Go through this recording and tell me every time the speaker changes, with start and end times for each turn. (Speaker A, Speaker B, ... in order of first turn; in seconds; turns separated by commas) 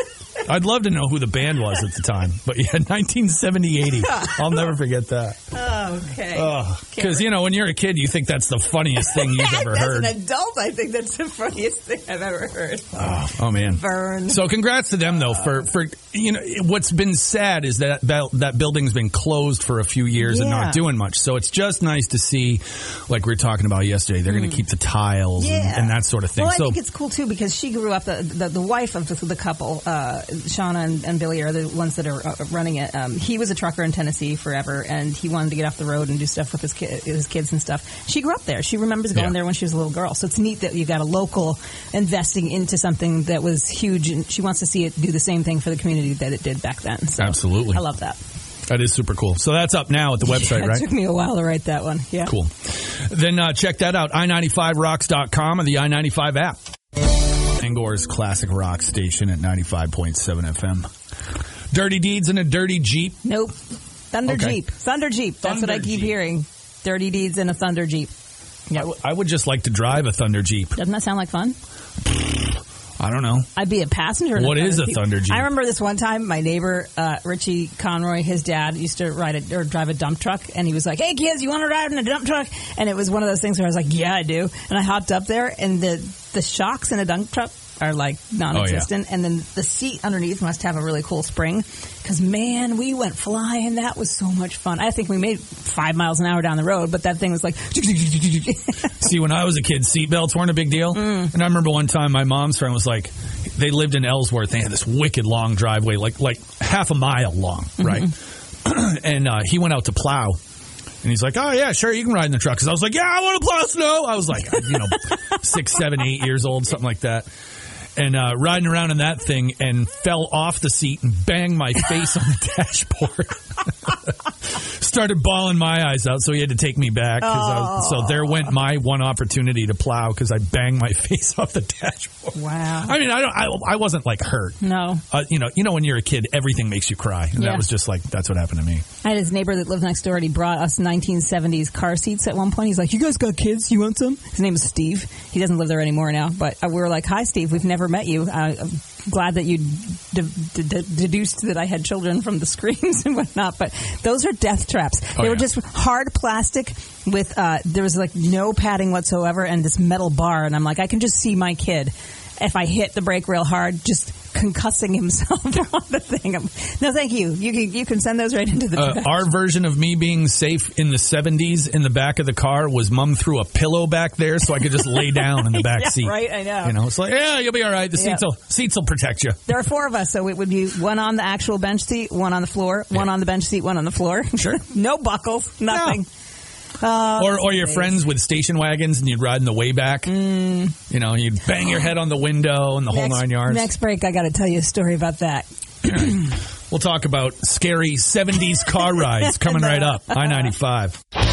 Speaker A: 0.4-5.4, Speaker B: 4.0-4.5, Speaker B: 5.5-7.3, Speaker A: 6.3-10.1, Speaker B: 9.0-14.5, Speaker A: 12.9-26.8, Speaker B: 20.2-20.8, Speaker B: 25.4-48.2, Speaker A: 47.2-47.8, Speaker A: 48.7-50.9, Speaker B: 50.2-52.3, Speaker A: 52.2-60.9, Speaker A: 61.7-63.2, Speaker B: 63.2-63.5, Speaker B: 64.1-68.1, Speaker A: 64.3-64.6, Speaker A: 65.4-66.1, Speaker A: 68.7-70.8, Speaker B: 70.8-71.5, Speaker A: 72.1-73.5, Speaker B: 73.5-98.9, Speaker A: 74.3-75.5, Speaker A: 88.5-88.9, Speaker A: 99.0-110.4, Speaker B: 101.0-101.3, Speaker B: 107.8-108.1, Speaker A: 111.0-117.3, Speaker A: 118.0-134.6, Speaker B: 127.2-128.5, Speaker B: 132.3-132.9, Speaker B: 134.6-135.0, Speaker A: 135.1-138.8, Speaker B: 137.3-137.7, Speaker B: 139.0-169.2, Speaker A: 155.2-155.4, Speaker A: 168.8-179.4, Speaker B: 174.7-176.8, Speaker B: 178.0-178.2, Speaker B: 179.5-186.1, Speaker A: 185.7-186.0, Speaker B: 186.8-188.0, Speaker A: 187.2-190.2, Speaker B: 190.1-190.7, Speaker A: 190.8-193.7, Speaker B: 192.9-196.4, Speaker A: 195.8-201.0, Speaker B: 199.4-200.5